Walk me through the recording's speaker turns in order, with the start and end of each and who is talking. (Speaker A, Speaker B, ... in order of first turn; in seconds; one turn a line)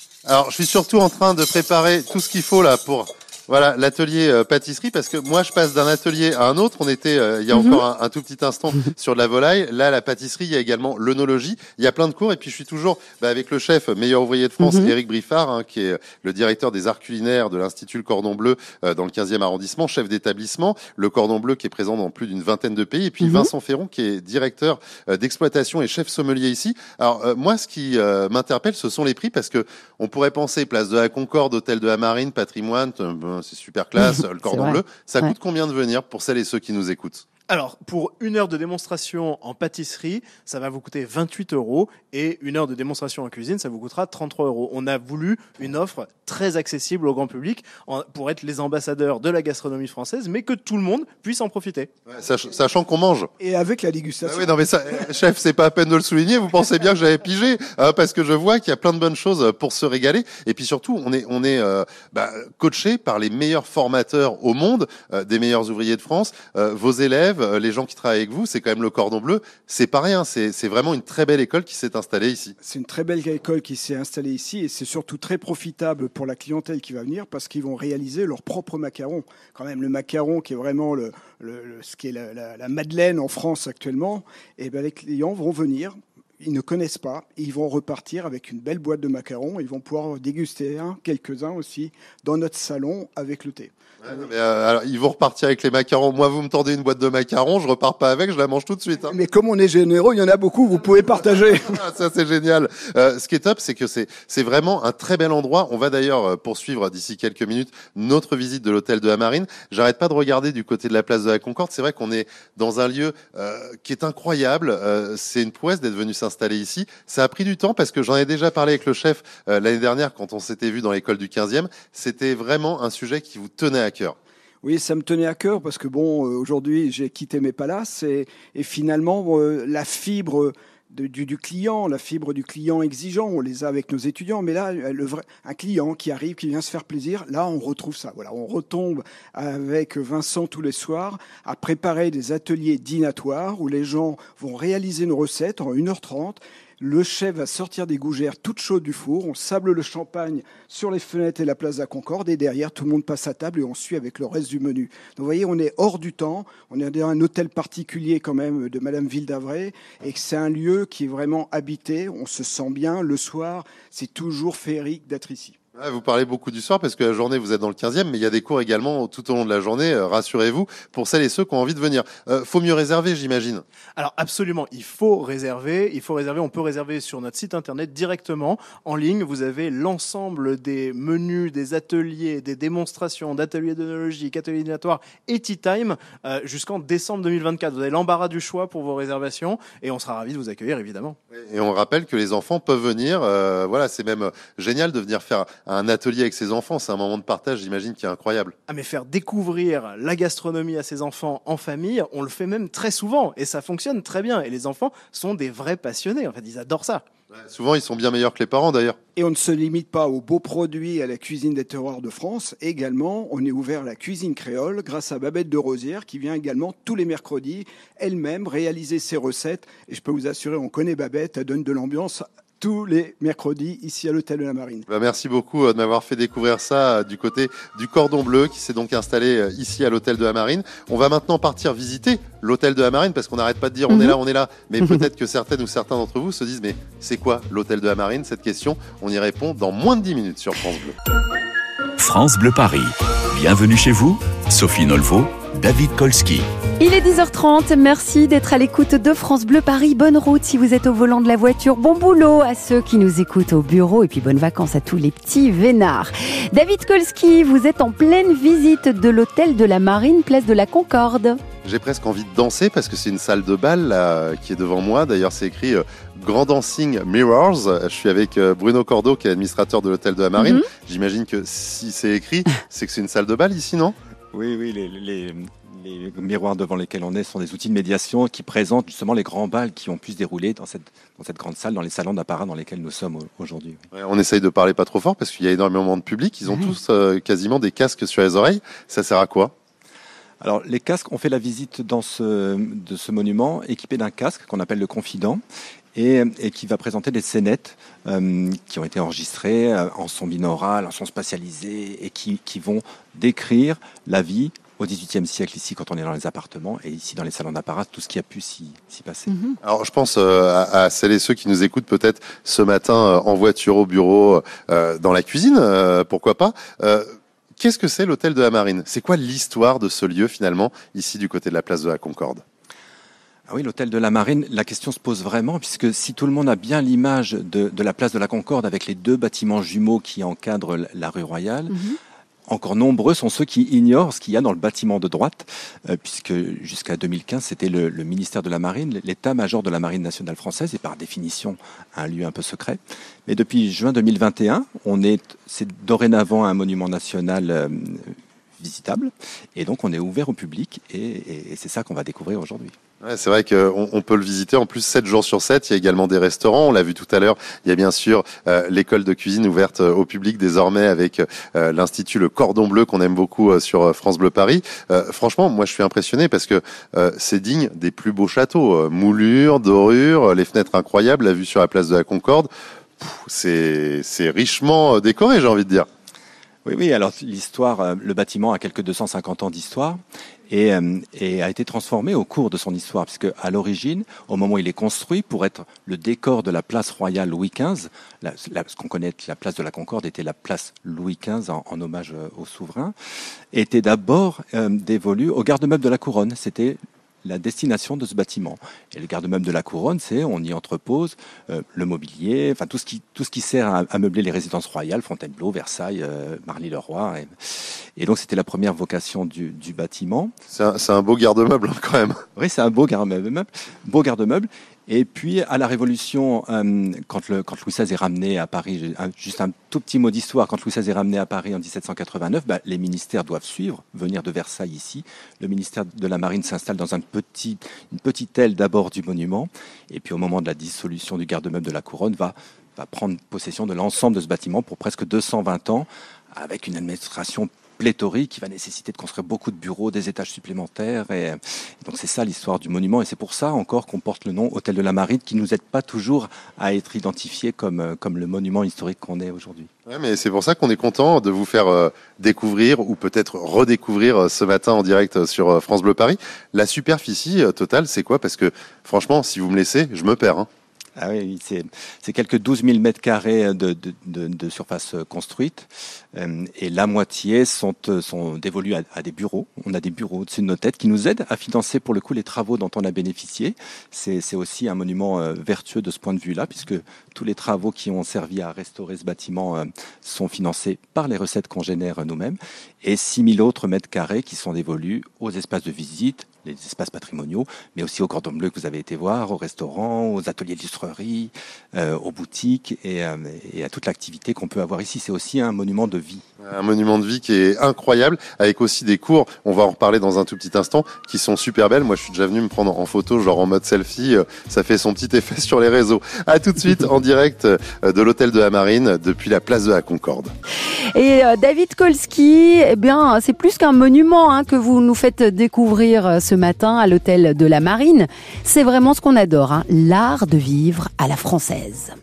Speaker A: 0.2-37.2
Speaker B: 7.5-7.8
Speaker B: 14.6-14.9
Speaker B: 23.2-23.5
Speaker B: 34.0-35.3
Speaker C: 37.5-51.9
Speaker A: 52.1-53.3
Speaker D: 53.4-54.5
Speaker A: 54.2-72.5
Speaker D: 72.6-93.7
Speaker A: 94.0-99.1
Speaker D: 99.1-101.8
Speaker A: 101.6-124.2
Speaker D: 124.6-165.6
Speaker A: 165.8-173.6
Speaker C: 174.0-191.2
Speaker A: 191.3-198.5
Speaker C: 198.7-207.0
Speaker A: 207.3-209.0
Speaker D: 209.2-224.8
Speaker A: 224.9-240.9
Speaker B: 233.9-234.2
Speaker E: 242.0-246.5
Speaker B: 246.8-261.4
Speaker A: 261.6-273.9
Speaker B: 270.4-270.7
Speaker F: 274.3-283.8
Speaker A: 283.9-289.5
Speaker F: 290.4-295.4
Speaker F: 295.9-309.3
Speaker B: 309.3-309.6
Speaker A: 309.6-322.4
Speaker F: 323.5-331.8
Speaker B: 331.7-331.9
Speaker F: 332.5-352.7
Speaker A: 353.0-375.9
Speaker F: 376.6-392.9
Speaker F: 393.5-410.3
Speaker A: 410.5-412.2
Speaker F: 412.4-449.7
Speaker A: 449.9-460.5
Speaker F: 461.0-496.2
Speaker A: 496.4-510.3
Speaker B: 510.9-521.9